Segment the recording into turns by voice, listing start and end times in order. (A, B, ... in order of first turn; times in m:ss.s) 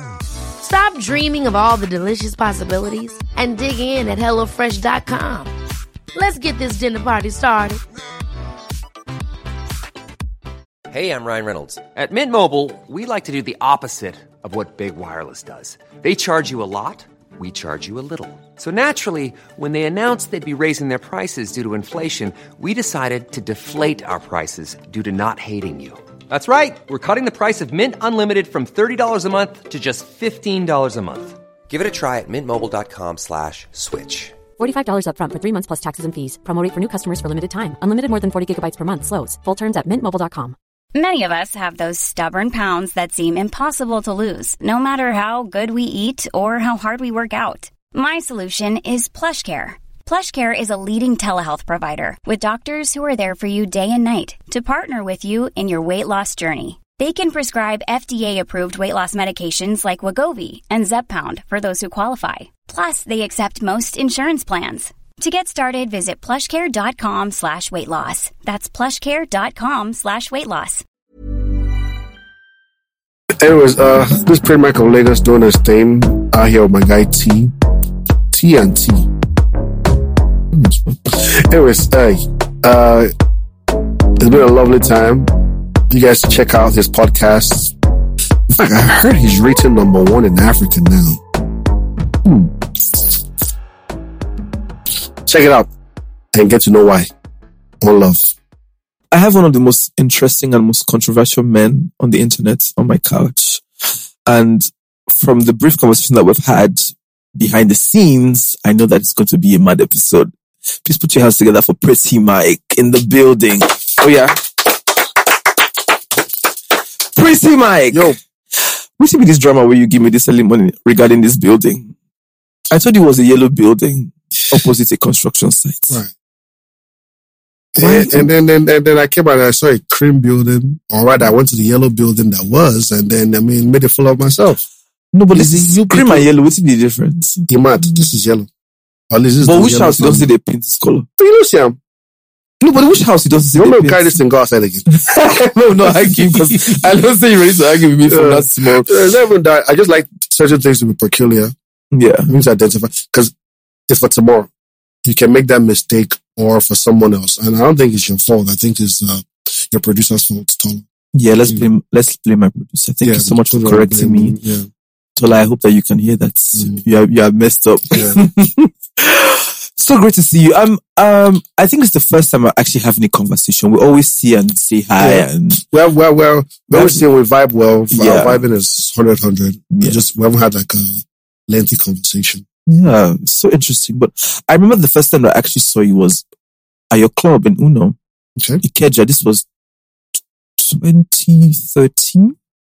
0:00.6-0:05.5 A
0:06.1-0:07.8 A
0:10.9-0:34.3 B
0:34.6-0:40.6 C
0:40.9-1:10.8 D
1:13.4-1:17.5 E
1:18.3-1:19.1 E
1:20.5-1:23.1 E
1:24.2-1:25.3 E
1:25.9-1:27.7 E
1:28.5-1:31.2 E
1:32.2-1:33.0 E
1:35.2-1:35.7 E
1:36.3-1:37.1 E
1:37.8-1:38.3 E
1:39.1-1:43.6 F
1:44.3-1:50.3 F
1:50.8-1:54.7 F
1:57.1-2:01.9 F
1:57.9-1:58.2 E
2:02.7-2:06.0 F
2:07.7-2:14.6 E
2:07.8-2:08.3 F
2:15.1-2:17.4 F
2:15.3-2:16.2 E
2:17.5-2:18.5 E
2:19.1-2:20.3 E
2:19.4-2:21.0 F
2:21.2-2:21.8 E
2:22.6-2:24.2 F
2:23.5-2:27.0 E
2:24.9-2:28.9 F
2:28.0-2:31.5 E
2:31.9-2:32.3 F
2:32.3-2:33.3 E
2:33.9-2:34.5 E
2:35.0-2:40.8 E
2:41.1-2:44.4 F
2:43.0-2:44.7 E
2:45.2-2:55.6 F
2:46.5-2:46.8 E
2:47.9-2:48.2 E
2:55.0-3:02.4 E
2:56.7-2:57.0 F
2:57.9-2:58.4 F
2:59.7-3:00.0 F
3:02.7-3:06.2 F
3:06.9-3:08.0 F
3:08.4-3:08.6 E
3:08.6-3:09.4 F
3:10.6-3:12.3 F